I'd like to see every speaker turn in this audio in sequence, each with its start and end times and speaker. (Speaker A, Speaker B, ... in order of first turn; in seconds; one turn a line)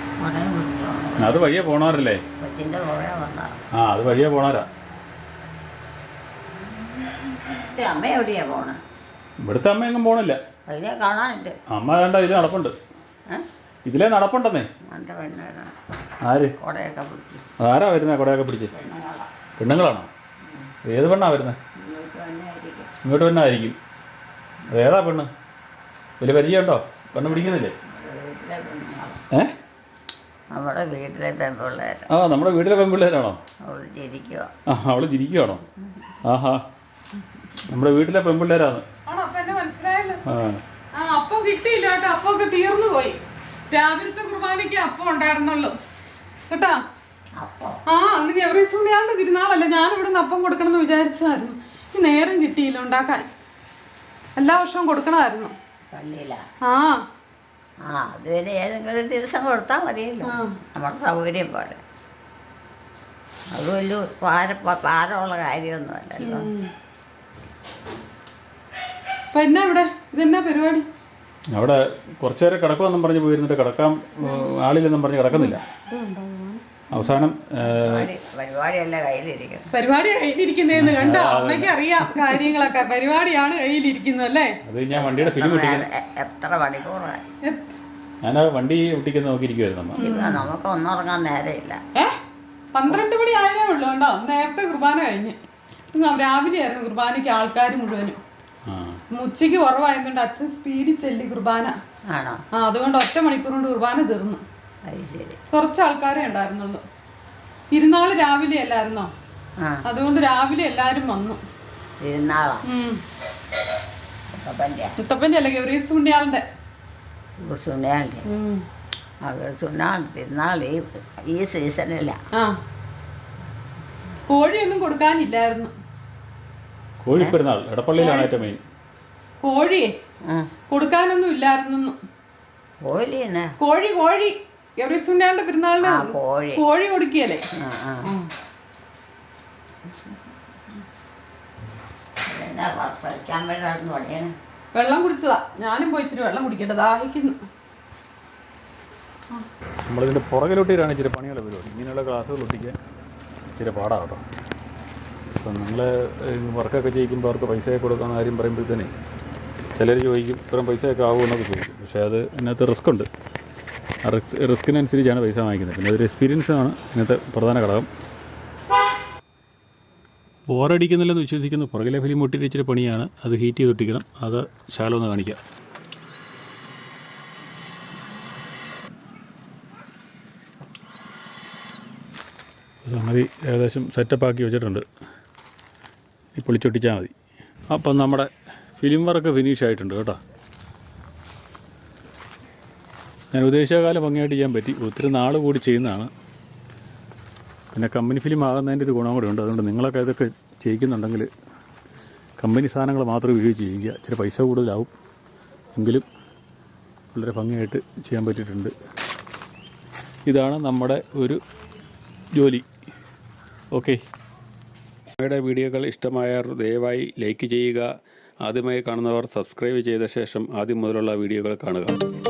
Speaker A: 0.2-1.4
Speaker B: 1.2-2.2
Speaker A: 2.4-3.6
Speaker B: 3.7-4.7
Speaker A: 6.9-8.8
Speaker B: 9.4-10.4
Speaker A: 10.7-11.6
Speaker B: 11.7-12.8
Speaker B: 13.8-14.7
Speaker A: 14.9-15.8
Speaker B: 16.2-16.5
Speaker A: 16.6-17.4
Speaker B: 17.6-18.7
Speaker A: 18.7-19.3
Speaker B: 19.6-20.1
Speaker A: 20.4-20.7
Speaker B: 20.9-21.6
Speaker A: 21.8-22.9
Speaker B: 23.0-23.8
Speaker B: 24.7-25.3
Speaker B: 26.2-27.7
Speaker A: 27.7-29.2
Speaker A: 30.5-32.1
Speaker B: 32.1-33.4
Speaker A: 33.6-34.5
Speaker B: 34.7-35.6
Speaker B: 36.2-36.7
Speaker B: 37.7-38.9
Speaker C: 39.1-40.2
Speaker B: 40.2-40.6
Speaker C: 40.9-43.2
Speaker C: 43.7-45.8
Speaker C: 46.5-46.8
Speaker A: 47.4-47.8
Speaker C: 47.9-53.3
Speaker C: 54.4-55.5
Speaker A: 55.9-56.4
Speaker C: 56.6-57.1
Speaker A: 57.8-61.8
Speaker C: 60.3-60.6
Speaker A: 63.5-66.5
Speaker C: 66.2-66.7
Speaker C: 69.3-70.9
Speaker B: 71.5-75.6
Speaker C: 74.3-74.5
Speaker C: 75.3-76.6
Speaker B: 76.9-78.1
Speaker A: 77.6-79.7
Speaker C: 79.7-84.6
Speaker B: 80.7-81.8
Speaker B: 84.6-85.9
Speaker A: 84.9-87.2
Speaker C: 87.4-87.8
Speaker B: 88.2-90.0
Speaker A: 89.9-91.8
Speaker C: 90.0-90.5
Speaker C: 92.0-92.2
Speaker C: 92.7-95.4
Speaker C: 95.9-98.2
Speaker B: 98.7-99.0
Speaker C: 99.1-101.8
Speaker A: 102.1-102.4
Speaker C: 102.5-104.4
Speaker A: 104.9-105.4
Speaker C: 105.5-106.8
Speaker C: 107.7-109.1
Speaker C: 109.9-111.4
Speaker A: 112.0-112.7
Speaker C: 112.7-113.0
Speaker A: 114.3-115.0
Speaker C: 115.0-116.5
Speaker A: 117.4-118.3
Speaker C: 118.3-118.7
Speaker A: 119.2-122.2
Speaker C: 122.3-122.6
Speaker C: 124.3-125.7
Speaker B: 127.0-128.6
Speaker C: 128.0-128.3
Speaker C: 129.4-129.9
Speaker A: 130.2-130.5
Speaker C: 130.7-132.0
Speaker A: 132.8-133.6
Speaker C: 133.6-137.5
Speaker A: 135.8-136.6
Speaker A: 137.5-138.1
Speaker C: 138.1-138.3
Speaker A: 142.2-144.3
Speaker C: 144.7-147.4
Speaker B: 149.9-152.8
Speaker B: 153.6-154.2
Speaker B: 155.4-158.9
Speaker B: 159.8-163.1
Speaker B: 164.0-167.9
Speaker B: 170.5-175.4
Speaker B: 182.8-184.9
Speaker B: 186.4-187.1
Speaker B: 187.7-190.2
Speaker B: 193.3-196.1
Speaker B: 197.7-201.3
Speaker B: 202.4-204.9
Speaker B: 205.8-206.1
Speaker B: 207.1-208.7
Speaker B: 210.3-211.4
Speaker B: 212.3-212.7
Speaker B: 213.7-214.0
Speaker B: 215.2-217.9
Speaker B: 218.4-222.0